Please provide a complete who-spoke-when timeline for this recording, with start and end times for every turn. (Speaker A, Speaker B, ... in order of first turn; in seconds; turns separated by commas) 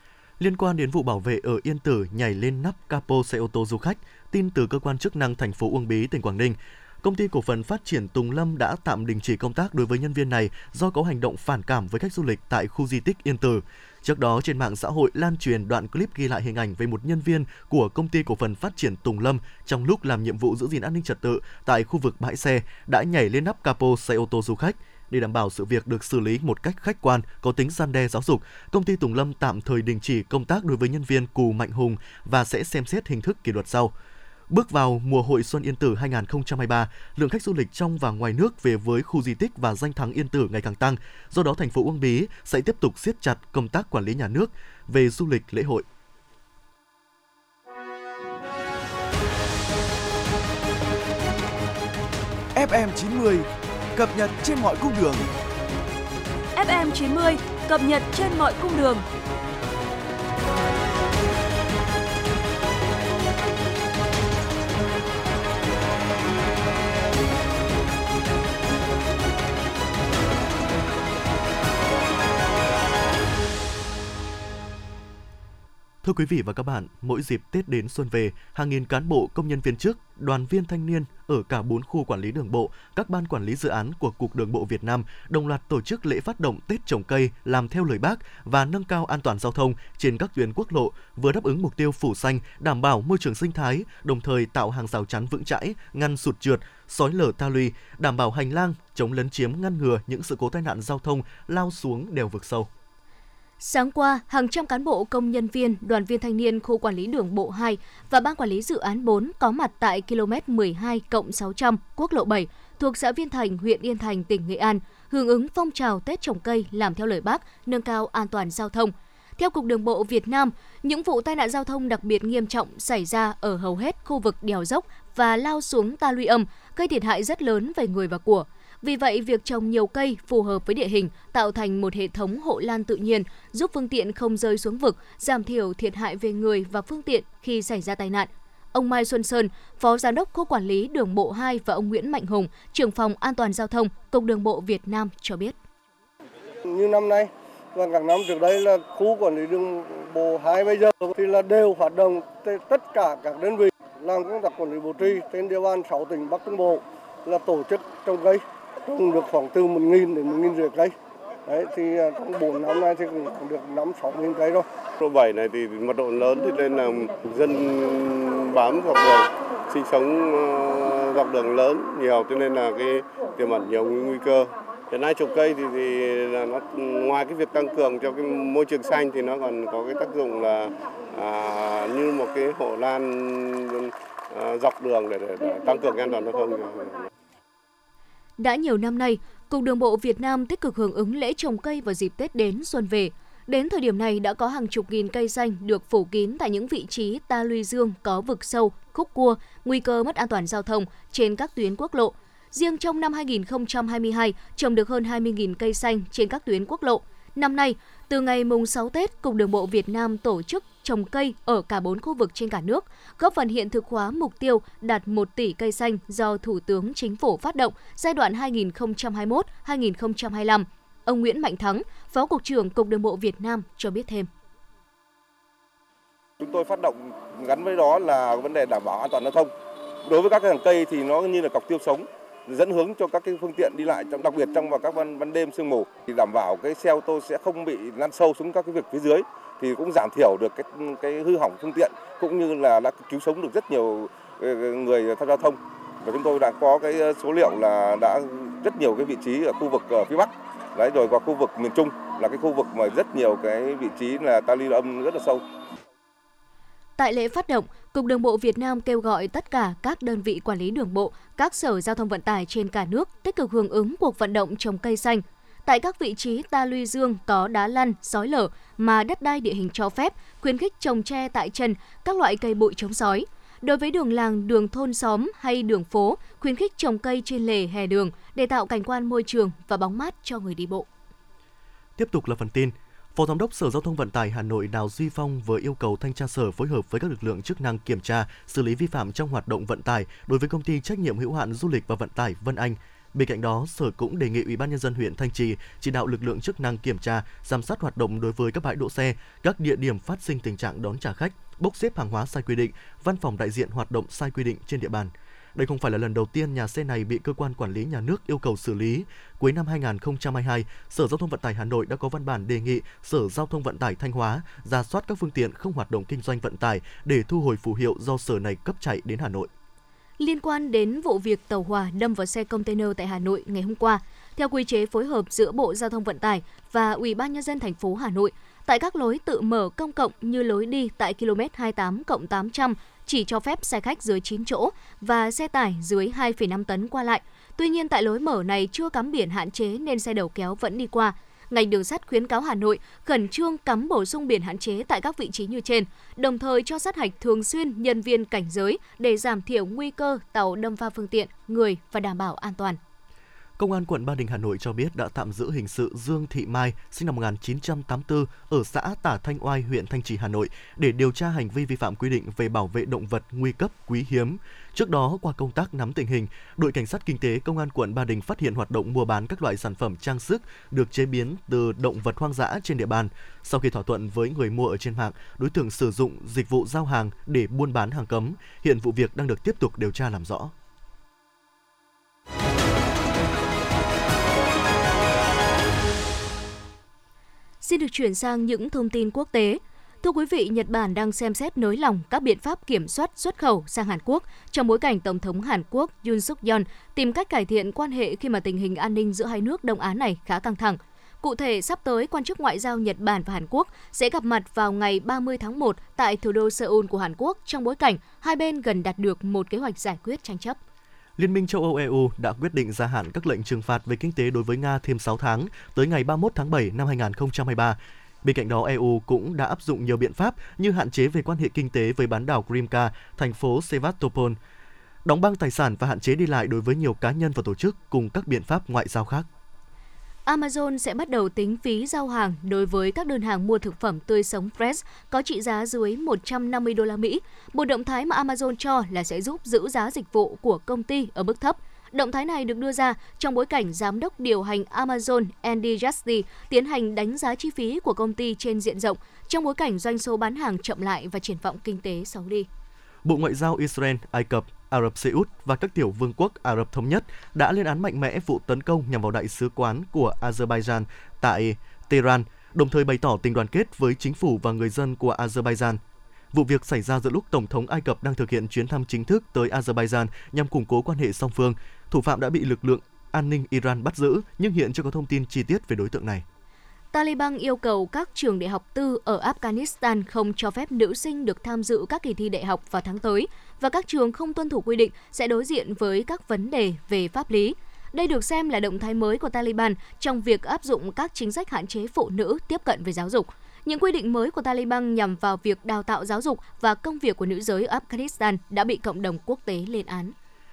Speaker A: 0.4-33.9, Speaker A: 34.5-45.8, Speaker B: 52.5-55.3, Speaker C: 56.5-59.0, Speaker A: 76.0-102.7, Speaker D: 103.6-145.5, Speaker E: 146.7-160.9, Speaker E: 161.4-164.7, Speaker F: 165.0-187.1, Speaker D: 188.4-224.3, Speaker G: 226.4-229.5, Speaker G: 230.1-255.4, Speaker D: 257.0-280.9, Speaker A: 282.0-319.5, Speaker D: 320.2-352.8, Speaker A: 353.6-380.5, Speaker D: 387.6-410.6, Speaker A: 411.2-424.4, Speaker A: 425.0-429.3, Speaker D: 430.2-452.5, Speaker A: 453.0-465.8, Speaker A: 466.3-476.2, Speaker D: 476.9-500.1